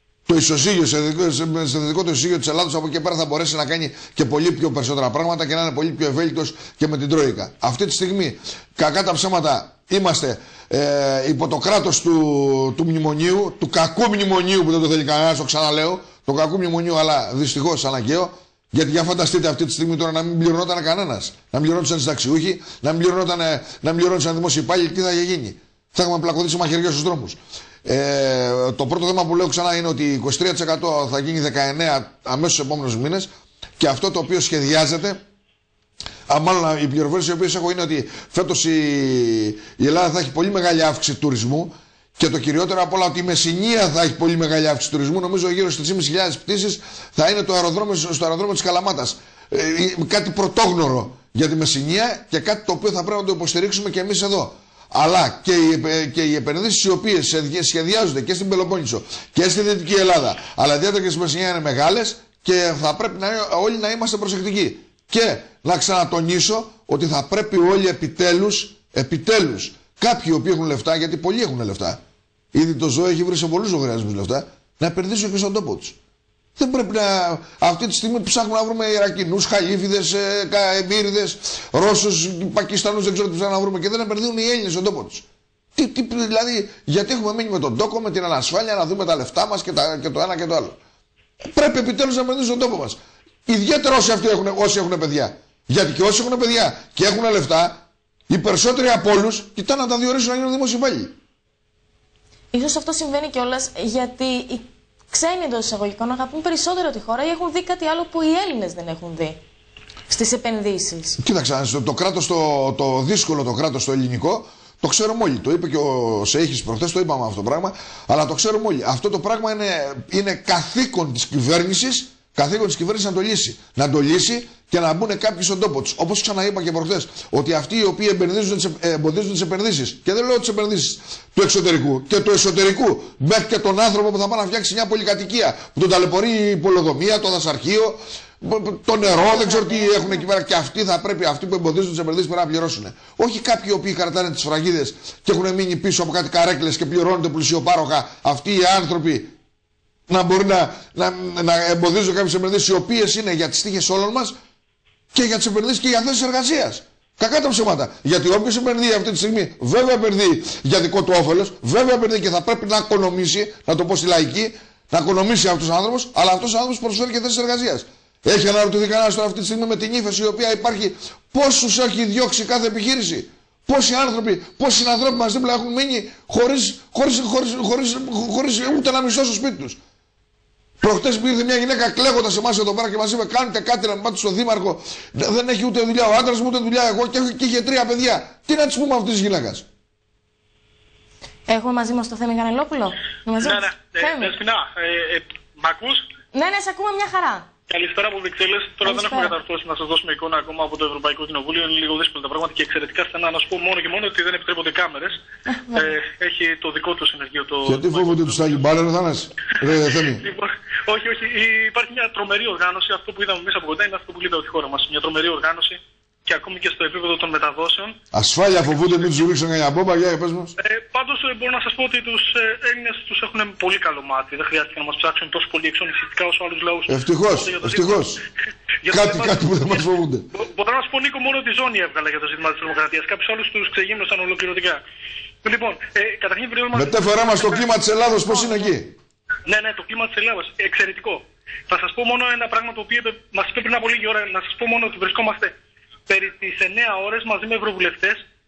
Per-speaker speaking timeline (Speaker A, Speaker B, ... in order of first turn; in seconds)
Speaker A: 0.3-35.2, 36.3-72.0, 72.5-76.0, 76.6-90.8, 91.4-101.1, 111.2-149.3, 150.1-154.3, 155.1-179.8, 180.8-189.6, 207.7-210.2, 218.1-220.5, 226.9-228.2, 228.9-230.2, 236.7-238.9
Speaker B: 102.5-109.4, 110.1-111.2, 139.0-140.3, 191.5-194.3, 196.3-197.5, 198.8-199.3, 205.5-205.9, 238.3-238.7
Speaker C: 193.4-196.1, 197.7-205.2, 205.7-208.7, 210.1-218.0, 220.6-228.1, 228.8-234.8, 235.4-237.7, 239.4-245.5, 246.1-248.2